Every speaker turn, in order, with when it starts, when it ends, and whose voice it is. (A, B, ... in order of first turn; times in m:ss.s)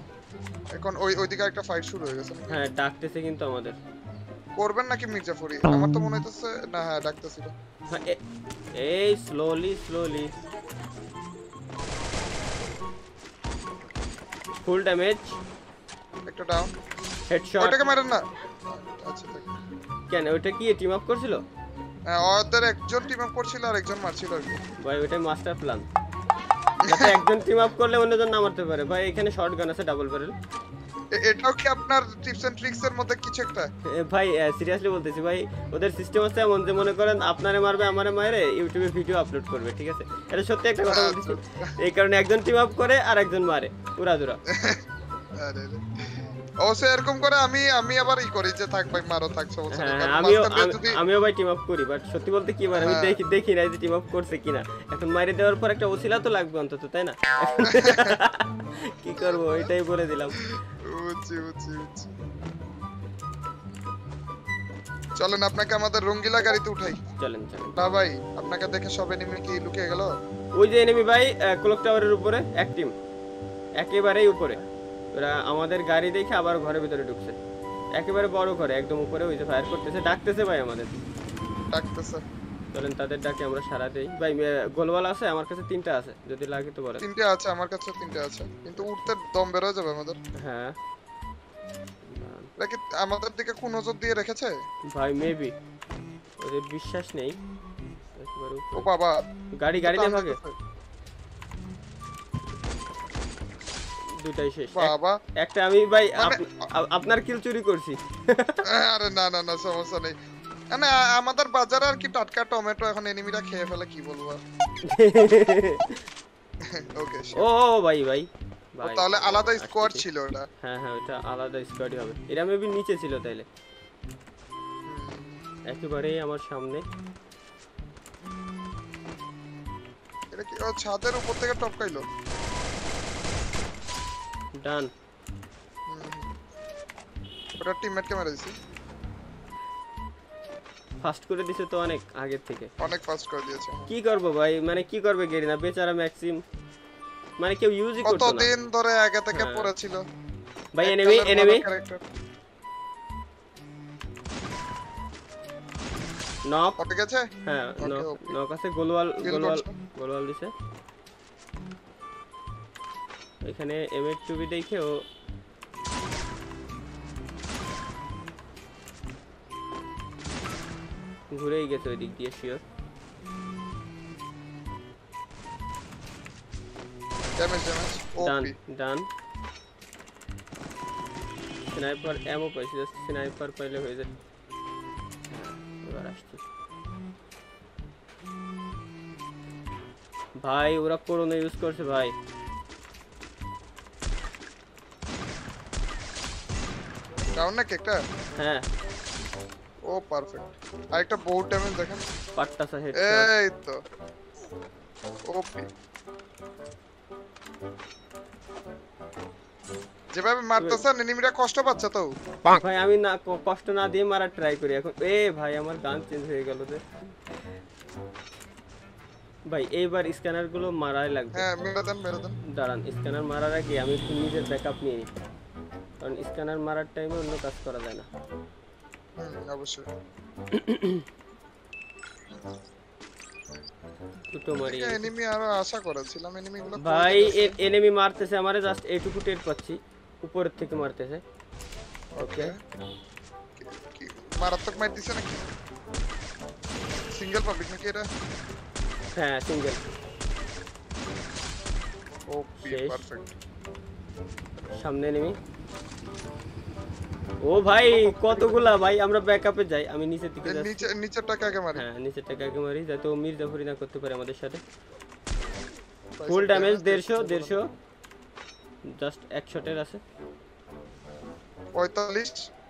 0:00.8-0:02.6 A
0:02.5-0:03.8 B
0:04.6-0:07.5 A
0:07.9-0:08.2 B
0:08.8-0:10.3 B
0:14.6-0:15.4 B
0:16.3-0:16.7 A
0:17.3-0:17.8 B
0:17.6-0:19.5 A
0:20.1-0:21.4 B
0:22.1-0:24.6 A
0:24.8-0:25.8 B
0:26.8-0:27.1 A
0:26.8-0:30.3 B
0:31.2-0:33.7 A
0:33.9-0:44.4 B
0:40.8-0:41.7 A
0:44.5-0:44.8 A
0:45.4-0:45.8 A
0:46.6-0:51.0 A
0:49.7-1:00.4 B
0:52.7-0:53.2 A
0:57.7-0:58.2 A
0:59.2-0:59.7 A
1:00.4-1:02.1 A
1:05.2-1:07.0 A
1:07.2-1:07.8 B
1:07.8-1:10.1 A
1:10.6-1:12.9 B
1:13.8-1:14.6 B
1:15.1-1:17.4 B
1:18.0-1:21.0 B
1:21.7-1:22.2 A
1:22.7-1:27.1 B
1:27.0-1:30.2 A
1:28.6-1:29.1 B
1:30.4-1:30.8 B
1:32.1-1:32.5 B
1:32.6-1:34.6 A
1:34.9-1:35.5 B
1:36.4-1:37.4 B
1:38.2-1:38.9 B
1:38.8-1:39.2 A
1:39.6-1:40.4 B
1:39.8-1:40.6 A
1:44.2-1:48.6 B
1:44.7-1:45.2 A
1:46.2-1:46.4 A
1:48.7-1:50.1 A
1:50.7-1:54.4 A
1:54.9-1:56.0 B
1:56.8-1:57.5 A
1:57.4-2:00.0 B
1:58.8-2:00.4 A
2:00.6-2:03.4 B
2:04.9-2:05.4 A
2:05.7-2:06.8 B
2:10.3-2:12.0 A
2:14.6-2:14.9 B
2:15.9-2:16.3 A
2:17.6-2:18.5 A
2:21.0-2:22.7 B
2:22.8-2:23.9 A
2:23.9-2:26.4 B
2:27.4-2:28.5 B
2:28.0-2:30.0 A
2:29.3-2:29.7 B
2:30.8-2:31.6 B
2:30.8-2:32.0 A
2:36.5-2:36.8 B
2:36.8-2:37.3 A
2:37.4-2:40.5 B
2:37.8-2:38.4 A
2:39.2-2:39.7 A
2:43.4-2:45.0 B
2:51.3-2:52.6 B
2:57.4-2:58.6 A
2:58.2-2:59.1 B
3:01.7-3:04.1 B
3:05.3-3:06.4 B
3:10.4-3:12.1 B
3:17.4-3:18.0 A
3:18.4-3:18.6 B
3:19.9-3:22.0 A
3:22.4-3:23.3 B
3:23.0-3:23.8 A
3:25.3-3:25.7 A
3:30.2-3:32.1 A
3:32.5-3:36.8 B
3:39.5-3:41.4 B
3:41.3-3:42.4 A
3:42.5-3:45.1 B
3:46.0-3:48.1 B
3:49.2-3:49.9 A
3:50.5-3:51.0 B
3:54.3-3:55.1 B
3:54.6-3:57.6 A
3:56.8-4:01.2 B
4:02.2-4:02.6 A
4:02.2-4:02.5 B
4:03.6-4:05.5 A
4:07.1-4:08.1 A
4:09.2-4:09.9 B
4:12.3-4:13.3 A
4:12.6-4:13.0 B
4:14.8-4:15.3 B
4:17.4-4:20.9 B
4:17.8-4:18.8 A
4:20.4-4:21.8 A
4:21.7-4:24.6 B
4:26.2-4:27.6 A
4:26.3-4:27.6 B
4:29.0-4:30.0 B
4:31.7-4:32.4 A